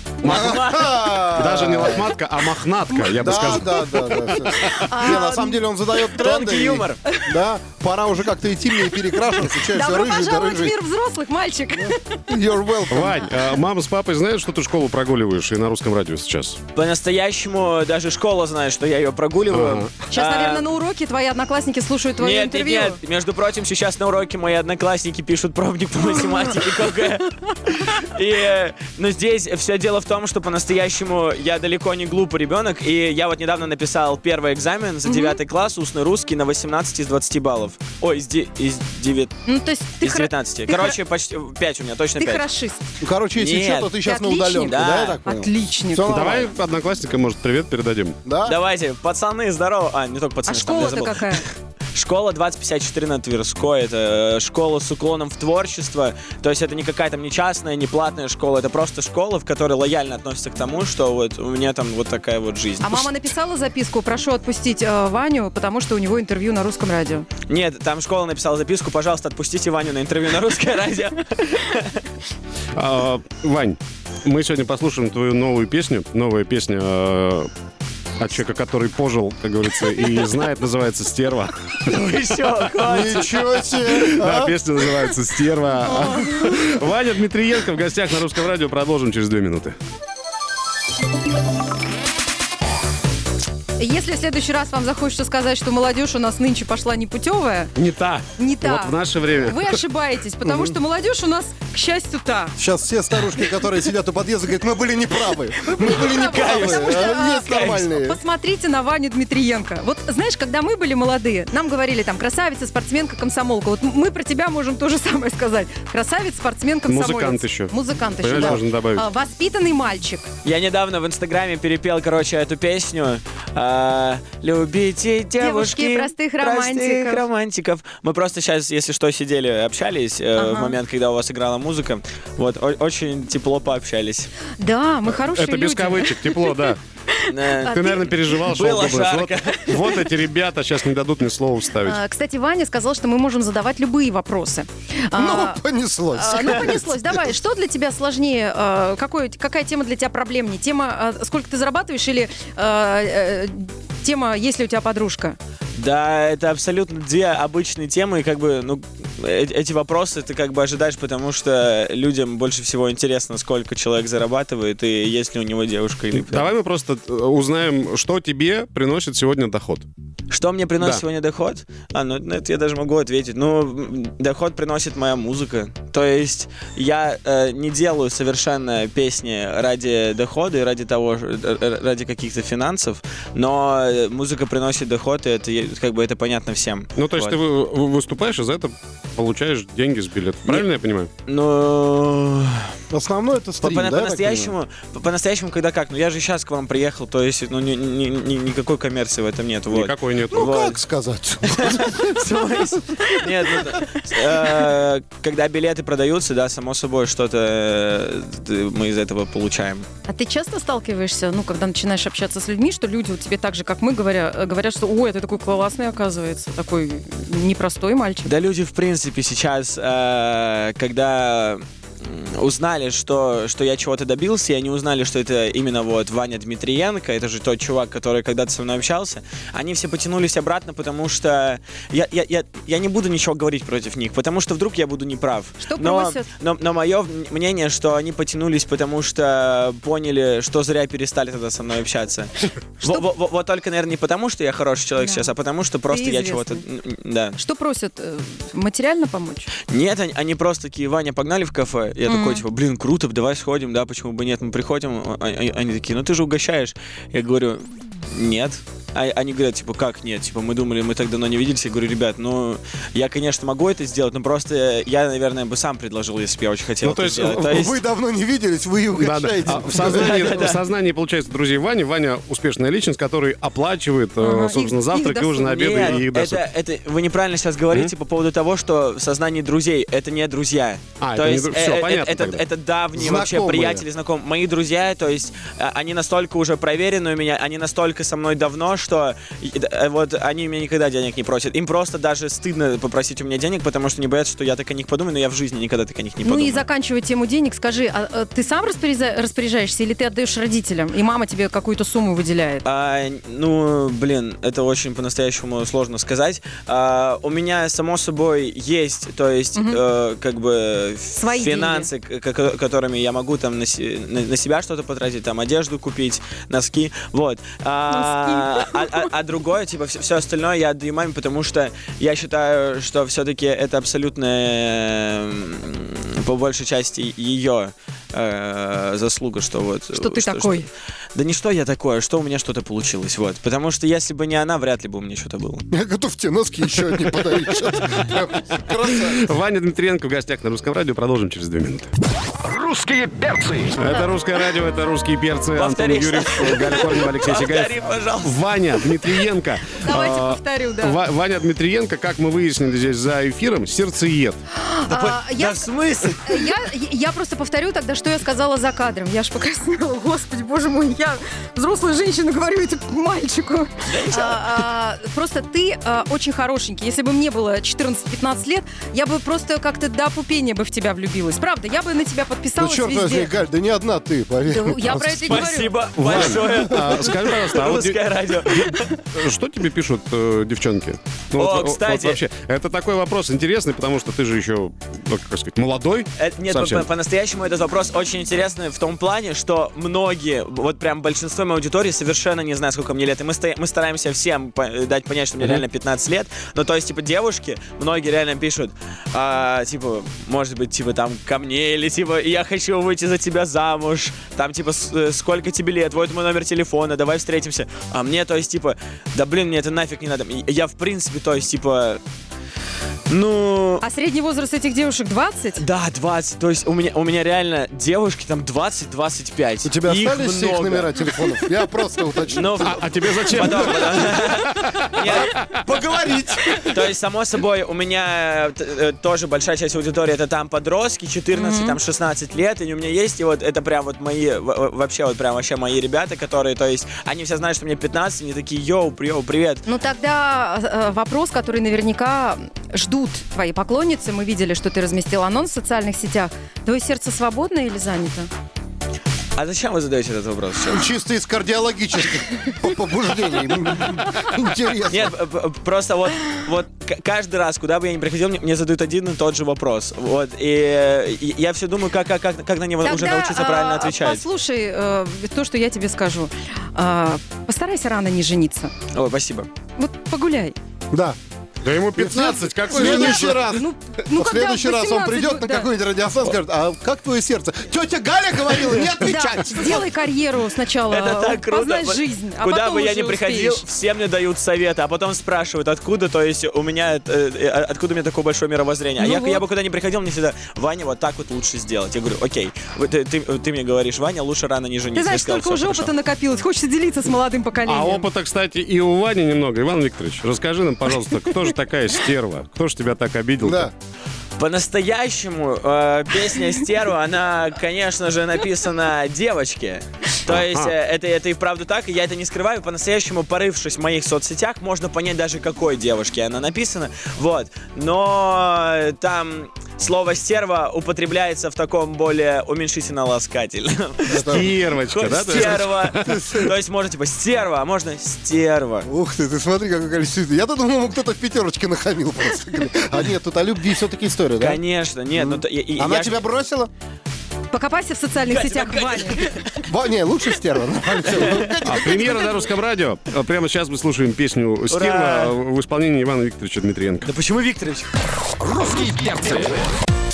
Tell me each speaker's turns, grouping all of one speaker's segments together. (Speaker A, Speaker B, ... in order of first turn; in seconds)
Speaker A: 0.2-0.6, 1.3-4.9, 12.9-16.6, 19.5-19.9, 46.1-48.2, 72.8-77.5, 78.2-81.5, 84.0-89.7, 97.8-99.8, 116.9-119.0, 135.1-136.8, 137.7-142.0, 166.1-169.9, 187.0-191.1, 199.7-200.6, 266.8-267.6, 269.0-276.4, 281.0-282.4, 338.7-341.9, 343.7-354.4, 376.0-386.9, 422.6-425.5, 471.6-473.6, 497.6-503.7, 510.3-510.7, 524.2-526.3, 541.6-547.1
Speaker B: 0.2-1.3, 6.0-7.0, 16.7-20.7, 22.1-39.3, 40.0-42.5, 43.3-43.9, 44.6-45.2, 48.4-63.1, 67.5-72.0, 81.8-84.0, 106.1-107.8, 120.4-134.3, 137.3-140.1, 155.8-166.5, 170.3-187.4, 191.3-192.7, 193.6-200.8, 201.4-209.9, 218.2-247.4, 249.7-267.8, 269.7-270.6, 275.4-296.6, 302.6-335.6, 345.6-349.2, 354.9-356.5, 363.8-364.6, 375.2-378.9, 381.4-382.2, 386.2-412.0, 413.1-413.8, 415.6-421.3, 422.2-425.6, 426.4-439.6, 449.4-450.9, 454.9-464.2, 468.9-469.5, 480.9-495.9, 504.4-528.9, 534.4-536.2, 538.2-539.6, 541.0-541.6, 544.7-545.4, 547.0-547.9
Speaker C: 0.2-2.1, 3.2-10.8, 11.8-13.3, 43.0-46.5, 48.2-48.5, 82.8-84.5, 100.4-100.8, 102.6-108.2, 145.1-147.2, 192.9-194.4, 200.3-202.2, 267.5-270.4, 282.9-283.8, 335.7-339.2, 372.6-375.5, 419.6-422.8, 425.6-426.7, 450.7-455.1, 470.9-471.2, 472.0-479.9, 503.4-503.7, 524.0-524.5, 525.3-526.5, 528.8-534.6, 535.1-536.7, 539.6-542.2
Speaker D: 2.9-5.7, 9.5-12.2, 20.1-23.0, 35.0-35.4, 39.4-40.9, 42.2-42.8, 44.0-46.1, 50.5-51.4, 62.8-67.3, 85.8-86.3, 93.8-97.7, 98.3-102.5, 105.6-120.3, 125.4-127.2, 130.4-130.8, 134.6-136.7, 137.3-138.2, 141.8-145.6, 146.1-155.4, 210.1-218.3, 235.6-236.3, 245.0-245.3, 245.9-246.6, 247.4-249.5, 252.1-252.4, 274.2-275.7, 296.2-302.6, 309.5-309.8, 311.2-311.9, 317.9-319.1, 329.9-330.7, 349.8-351.0, 354.5-355.6, 356.2-373.3, 374.5-375.8, 413.8-415.6, 431.3-431.8, 439.6-448.3, 462.8-468.7, 469.8-470.6, 472.7-475.7, 479.0-483.6, 489.0-489.4, 494.9-498.1, 537.5-539.2
Speaker E: 342.4-343.8, 548.4-549.7